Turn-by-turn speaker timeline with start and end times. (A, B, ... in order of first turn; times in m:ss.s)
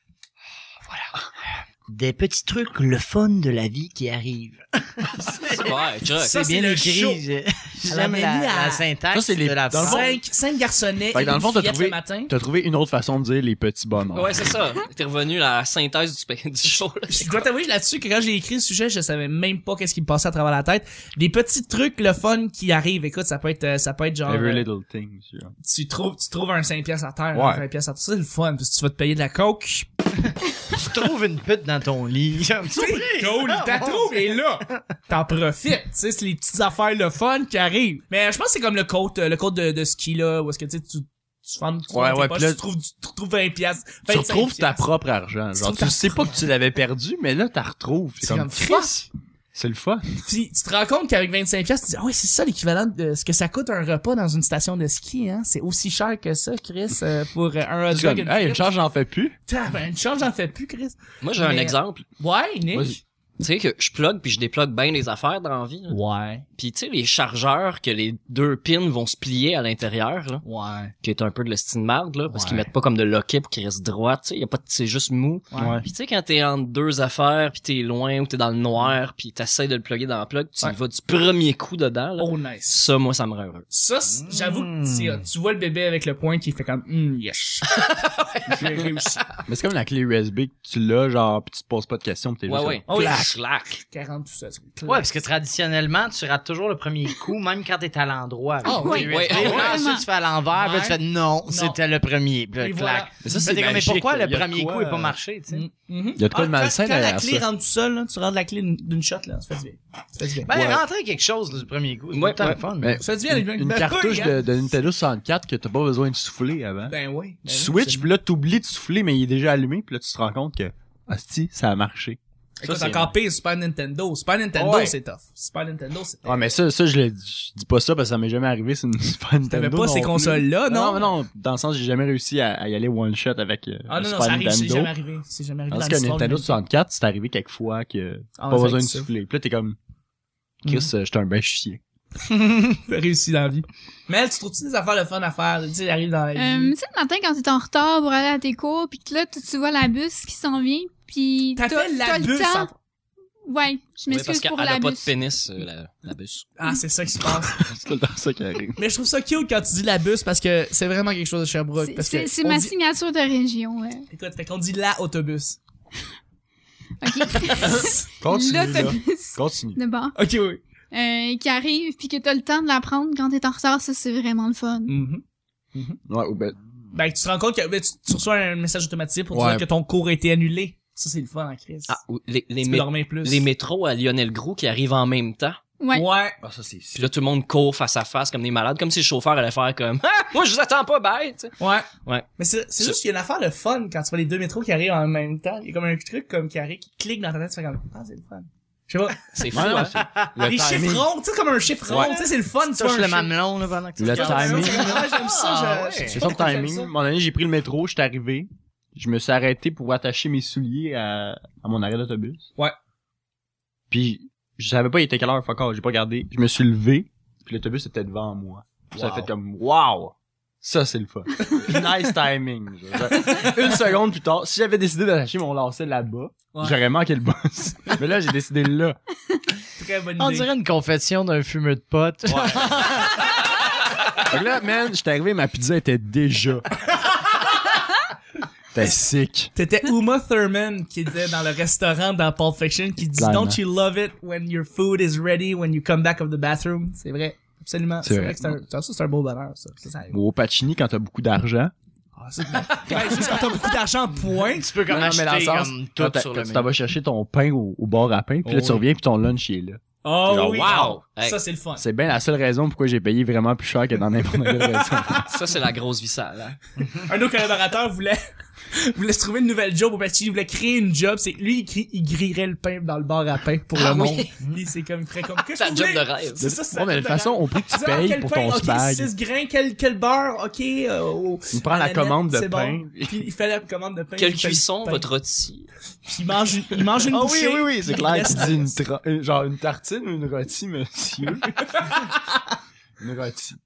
0:01.9-0:05.8 A
0:05.5-0:06.4 B
0:06.2-0:07.2 C
0:06.3-0:10.2 A
0:07.8-0:08.9 C
0:09.1-0:10.1 D
0:09.7-0:12.3 C
0:11.1-0:14.4 D
0:14.1-0:17.4 B
0:17.1-0:24.7 C
0:24.3-0:25.5 D
0:25.6-0:29.9 C
0:27.3-0:27.6 D
0:30.7-0:34.4 A
0:32.7-0:44.8 C
0:41.9-0:42.6 D
0:44.1-0:50.1 D
0:45.6-0:46.4 C
0:48.2-0:49.0 C
0:50.2-0:58.6 C
0:57.9-0:59.4 D
0:59.5-1:03.0 C
1:01.2-1:02.0 B
1:03.4-1:06.0 B
1:05.9-1:06.4 C
1:06.6-1:10.4 B
1:10.4-1:10.9 C
1:11.0-1:23.7 B
1:15.5-1:15.8 C
1:15.6-1:15.8 D
1:22.2-1:22.8 C
1:23.7-1:27.7 C
1:24.2-1:25.2 A
1:27.7-1:29.0 B
1:28.5-1:29.2 C
1:29.5-1:33.3 D
1:32.5-1:33.8 B
1:32.9-1:35.1 C
1:34.9-1:45.6 A
1:38.6-1:39.8 C
1:38.6-1:40.0 E
1:39.0-1:39.8 B
1:40.5-1:41.8 C
1:42.6-1:43.1 C
1:43.2-1:45.2 D
1:45.5-1:50.5 C
1:46.2-1:47.4 D
1:50.4-1:53.0 A
1:50.5-1:50.8 D
1:52.1-1:52.6 B
1:52.8-1:57.0 D
1:53.0-1:54.4 C
1:56.9-1:58.1 C
1:57.5-2:03.1 D
2:02.6-2:06.5 C
2:04.6-2:05.0 D
2:06.2-2:14.9 D
2:09.5-2:11.1 C
2:13.9-2:16.6 C
2:15.7-2:19.8 D
2:18.4-2:19.1 C
2:20.6-2:21.8 D
2:22.4-2:26.8 C
2:26.4-2:32.7 E
2:31.6-2:32.7 C
2:33.5-2:35.1 E
2:34.1-2:36.5 B
2:36.6-2:37.6 C
2:37.4-2:38.8 D
2:38.8-2:42.7 C
2:41.8-2:44.1 E
2:44.1-2:45.6 C
2:47.0-2:50.2 E
2:47.6-2:49.8 D
2:50.2-2:50.6 C
2:50.9-2:55.0 E
2:54.9-2:55.2 C
2:56.1-2:56.6 D
2:56.9-3:02.0 C
2:59.3-2:59.7 D
3:01.9-3:05.6 B
3:02.6-3:03.4 C
3:05.8-3:06.1 E
3:05.9-3:06.4 C
3:06.4-3:07.1 D
3:07.0-3:11.5 B
3:11.6-3:19.3 C
3:19.3-3:20.0 B
3:19.5-3:21.1 D
3:20.4-3:23.3 C
3:21.9-3:22.1 D
3:21.9-3:26.2 A
3:24.0-3:25.1 D
3:24.1-3:26.9 C
3:26.1-3:32.5 D
3:33.9-3:49.0 D
3:38.9-3:39.3 C
3:41.4-3:41.8 C
3:43.1-3:43.7 C
3:46.5-3:46.8 C
3:49.8-3:50.5 C
3:50.2-3:53.3 A
3:52.3-3:52.6 C
3:52.3-3:52.7 D
3:54.2-3:56.7 D
3:58.7-3:59.5 D
3:59.6-4:10.2 C
4:03.2-4:03.6 D
4:08.0-4:08.6 D
4:10.1-4:11.7 D
4:12.2-4:14.7 C
4:12.9-4:13.3 A
4:14.5-4:16.7 A
4:14.9-4:21.0 D
4:18.4-4:18.8 C
4:20.0-4:21.8 C
4:20.4-4:21.4 B
4:21.8-4:25.2 D
4:24.4-4:25.3 C
4:25.2-4:26.6 B
4:26.9-4:28.2 C
4:28.7-4:45.0 C
4:33.8-4:34.3 B
4:35.6-4:36.5 B
4:36.4-4:39.1 D
4:41.5-4:43.2 D
4:44.2-4:45.7 B
4:46.1-4:48.8 C
4:47.0-4:51.5 D
4:51.6-4:52.2 C
4:53.0-4:53.6 D